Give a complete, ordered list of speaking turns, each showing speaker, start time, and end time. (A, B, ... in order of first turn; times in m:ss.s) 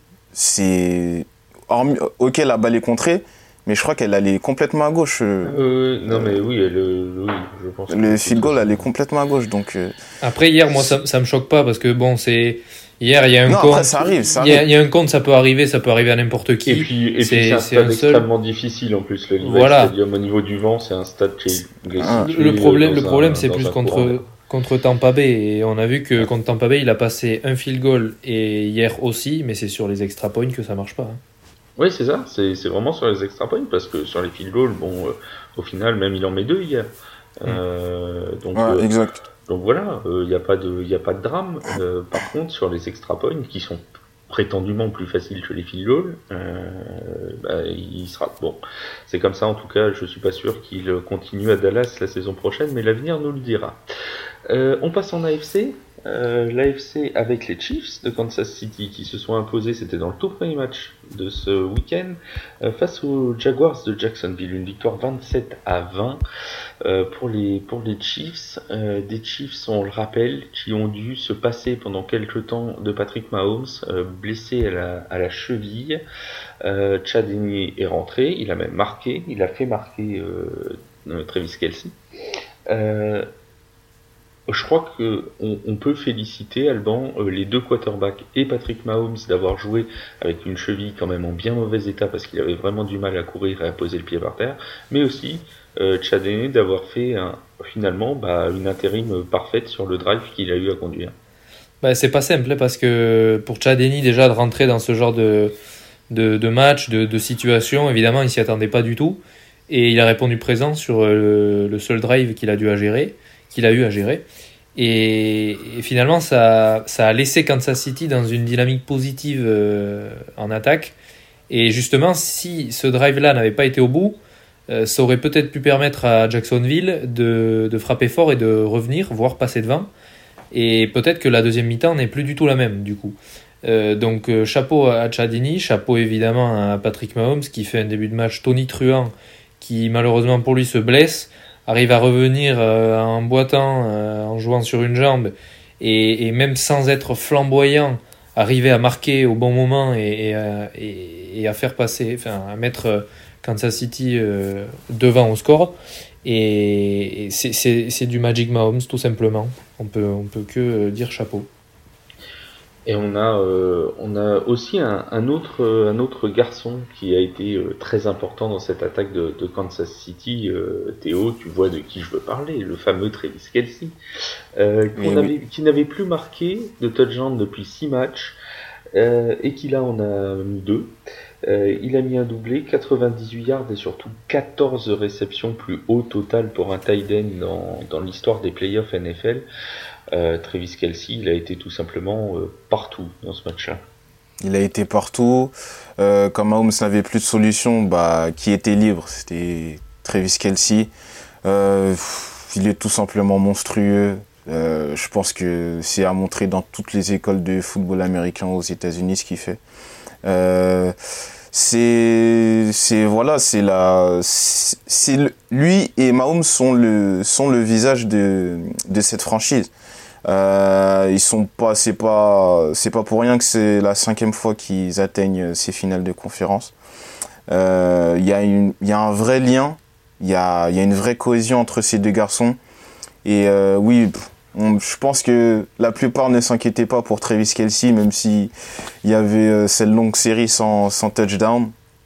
0:00.3-0:05.5 A
0:05.4-0:08.8 B
0:06.1-0:06.4 A
0:07.9-0:10.0 A
0:10.2-0:18.3 C
0:13.5-0:14.7 A
0:16.7-0:24.2 B
0:19.4-0:19.9 C
0:22.0-0:22.3 A
0:22.0-0:31.2 C
0:31.8-0:38.9 B
0:38.6-0:39.2 A
0:39.5-0:53.8 B
0:54.5-1:06.2 B
1:06.8-1:16.0 B
1:16.6-1:22.0 B
1:22.7-1:23.3 B
1:24.5-1:41.1 B
1:41.8-1:45.6 C
1:46.1-2:01.0 C
2:01.5-2:09.9 C
2:10.5-2:41.5 C
2:42.9-2:54.0 B
2:54.6-2:58.4 B
2:55.0-2:55.3 A
2:58.9-3:09.5 B
3:10.1-3:13.8 B
3:14.4-3:20.9 A
3:21.4-3:29.6 A
3:30.2-3:30.9 A
3:31.5-3:39.7 A
3:40.3-3:46.7 A
3:47.5-3:52.6 A
3:53.2-3:58.5 A
3:59.0-4:01.7 A